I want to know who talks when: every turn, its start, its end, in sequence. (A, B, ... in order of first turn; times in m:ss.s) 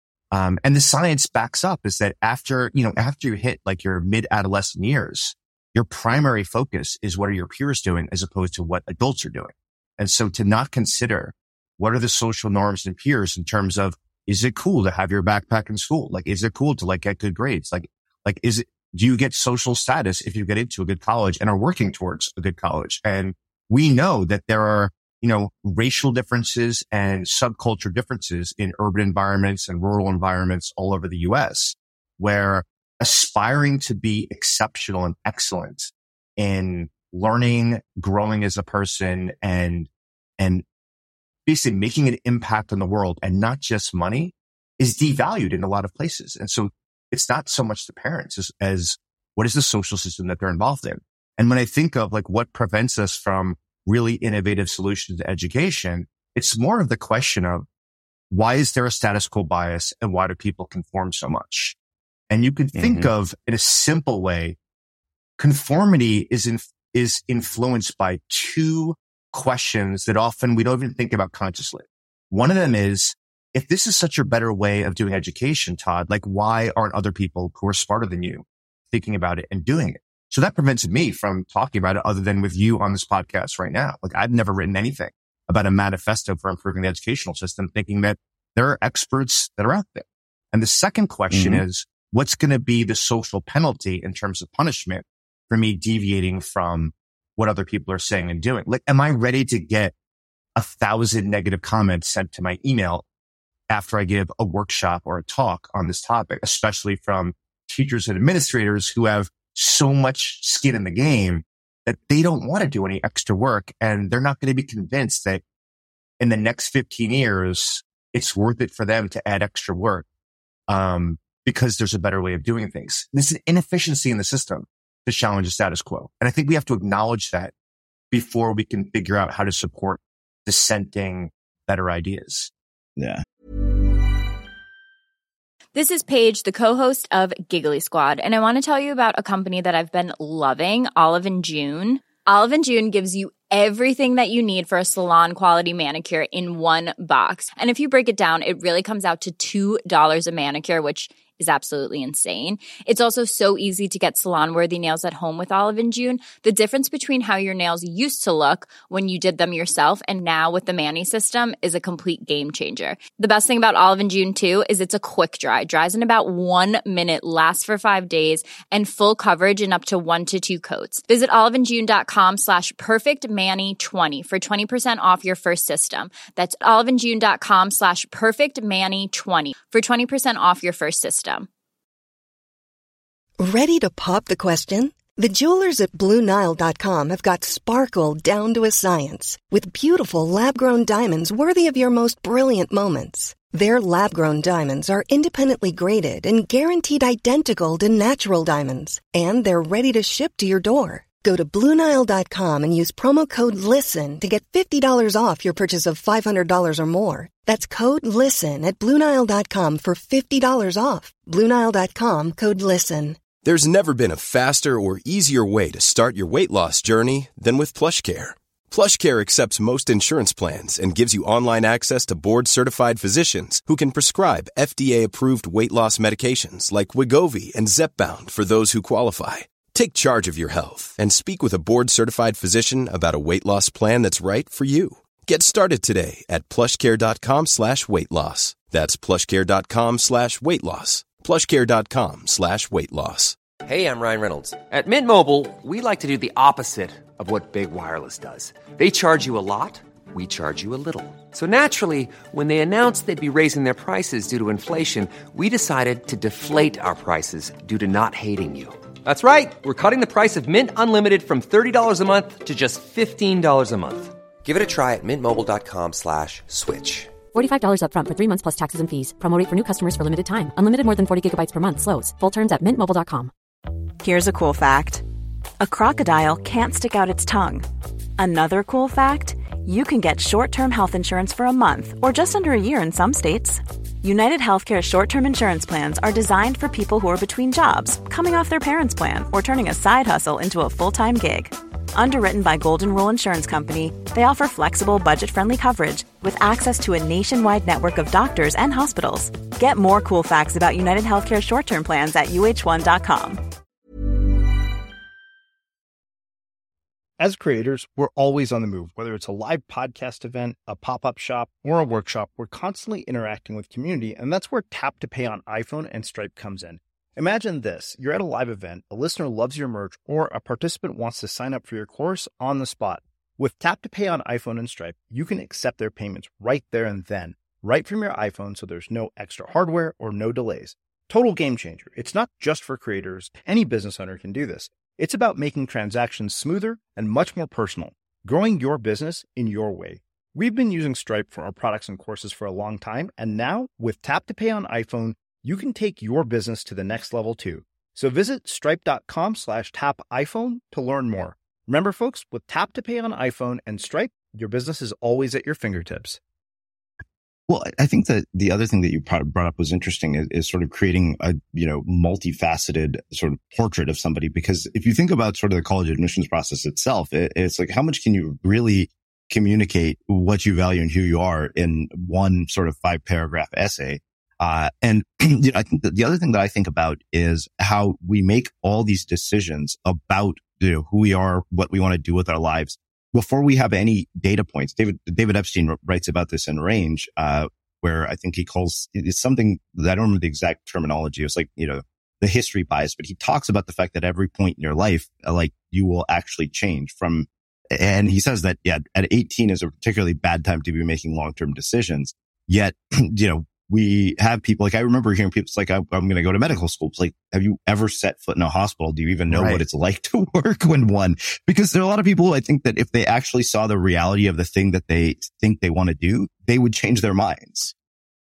0:00.3-0:40.6 A
0:41.5-0:57.6 A
0:58.3-1:01.8 A
1:02.3-1:04.6 A
1:02.8-1:03.1 B
1:05.4-1:39.9 A
1:31.3-1:31.6 B
1:40.6-1:43.0 A
1:43.7-1:55.4 A
1:56.2-2:00.1 A
2:00.7-2:07.5 A
2:08.1-2:12.5 A
2:13.0-2:13.2 B
2:15.8-3:01.5 C
3:03.4-3:33.2 D
3:33.4-4:03.4 E
4:03.6-4:27.2 F
4:27.3-4:33.3 G
4:34.0-4:35.0 H
4:35.6-4:37.6 H
4:38.2-5:03.4 H
5:07.2-5:56.2 I
5:57.5-6:57.7 B
6:49.3-6:49.6 A